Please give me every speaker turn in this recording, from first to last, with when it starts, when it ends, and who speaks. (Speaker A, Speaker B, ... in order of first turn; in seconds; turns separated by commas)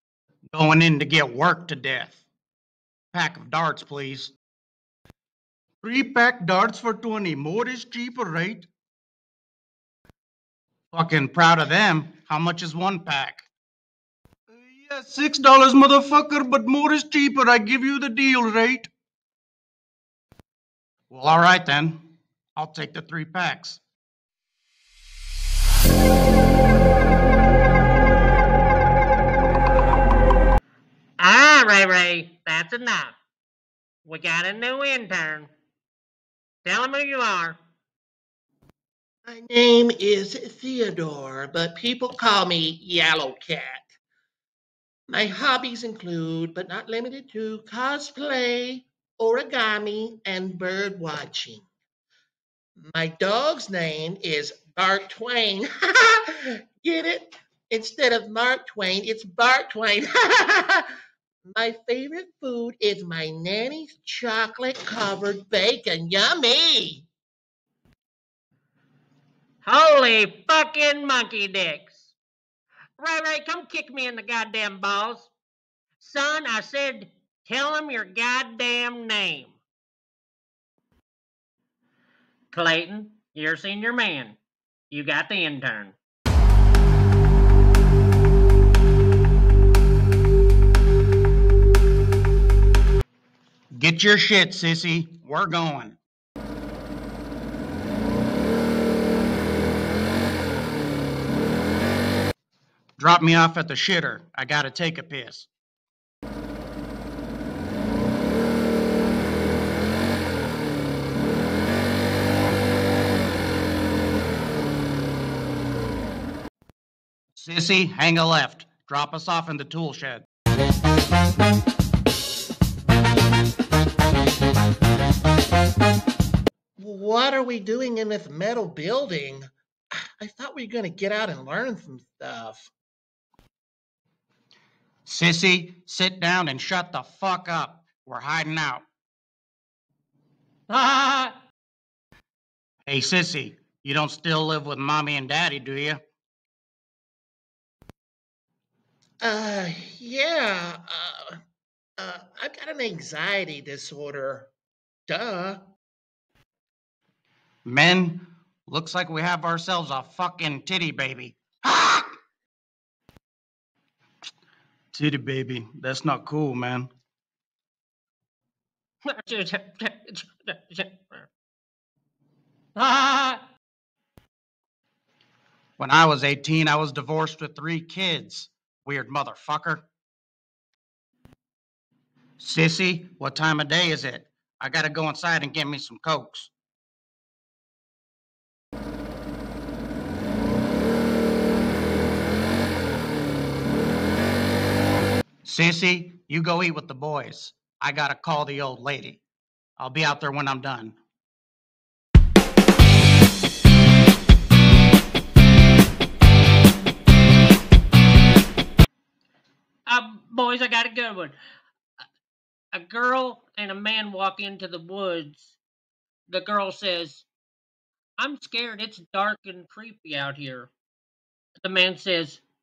Speaker A: 0.5-2.2, Speaker A: 3.1-4.3, Speaker A: 5.8-8.7, Speaker A: 10.9-13.4, Speaker A: 14.5-18.9, Speaker A: 21.1-22.0, Speaker A: 22.6-23.8, Speaker B: 31.2-33.1, Speaker B: 34.0-35.5, Speaker B: 36.6-37.6, Speaker C: 39.2-43.9, Speaker C: 45.1-51.6, Speaker C: 52.9-60.9, Speaker C: 61.5-67.0, Speaker B: 69.6-72.1, Speaker B: 73.0-75.3, Speaker B: 76.0-79.6, Speaker B: 82.5-84.4, Speaker B: 84.9-86.0, Speaker A: 93.7-96.0, Speaker A: 103.0-105.5, Speaker A: 117.3-120.2, Speaker C: 126.8-132.7, Speaker A: 135.1-138.8, Speaker B: 140.7-141.3, Speaker A: 142.8-146.0, Speaker C: 149.2-151.4, Speaker C: 152.0-154.5, Speaker C: 155.1-155.6, Speaker A: 157.6-162.1, Speaker A: 164.9-166.9, Speaker B: 169.0-171.3, Speaker B: 172.8-173.4, Speaker A: 175.8-179.8, Speaker A: 182.4-186.5, Speaker A: 195.4-199.2, Speaker A: 199.8-201.0, Speaker B: 209.8-211.3, Speaker B: 212.7-215.6, Speaker B: 216.3-217.3, Speaker B: 218.2-220.7, Speaker B: 221.6-222.4